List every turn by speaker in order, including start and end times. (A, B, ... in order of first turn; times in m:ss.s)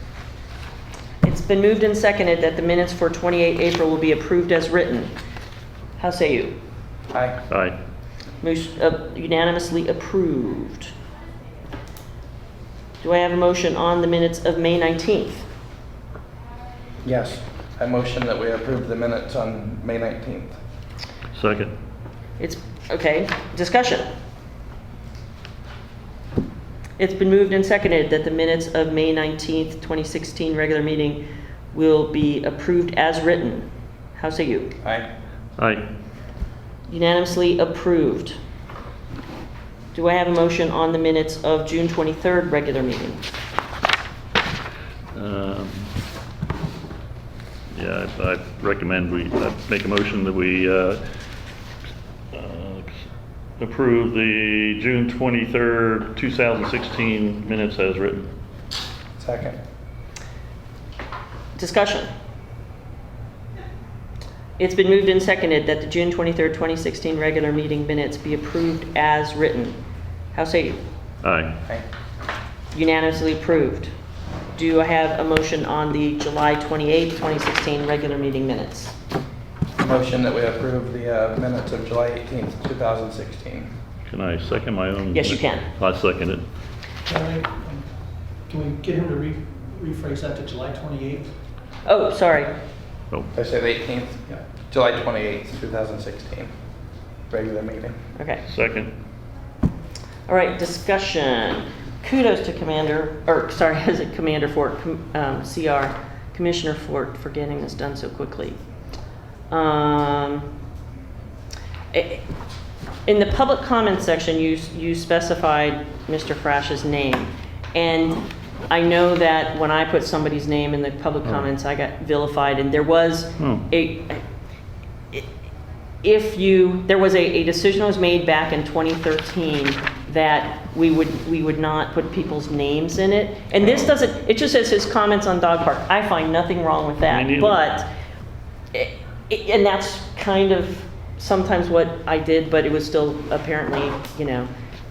0:01.2-0:05.1 A
0:06.0-0:06.5 A
0:07.1-0:07.4 B
0:07.5-0:07.8 C
0:08.4-0:10.9 A
0:13.0-0:15.4 A
0:17.0-0:20.6 B
0:21.3-0:21.7 C
0:22.4-0:24.0 A
0:27.0-0:34.7 A
0:34.8-0:35.1 B
0:35.6-0:35.8 C
0:36.9-0:38.4 A
0:39.9-0:43.2 A
0:45.1-0:45.9 C
0:47.7-0:51.0 C
0:52.3-0:53.0 C
0:53.6-0:58.3 C
0:59.2-0:59.6 B
1:01.6-1:02.1 A
1:04.6-1:09.8 A
1:10.3-1:10.8 A
1:11.2-1:11.6 C
1:12.7-1:13.9 A
1:14.6-1:18.9 A
1:19.8-1:23.7 B
1:24.1-1:26.4 C
1:25.1-1:25.6 A
1:27.0-1:27.8 D
1:28.5-1:31.3 D
1:31.8-1:32.5 A
1:33.3-1:36.5 B
1:37.3-1:38.0 B
1:38.2-1:38.4 A
1:38.5-1:38.9 C
1:40.2-1:48.6 A
1:49.5-1:50.5 A
1:51.9-1:52.2 A
1:53.0-2:04.2 A
2:03.4-2:03.7 C
2:06.0-2:17.9 A
2:13.6-2:13.9 C
2:17.1-2:17.6 C
2:18.7-2:24.5 A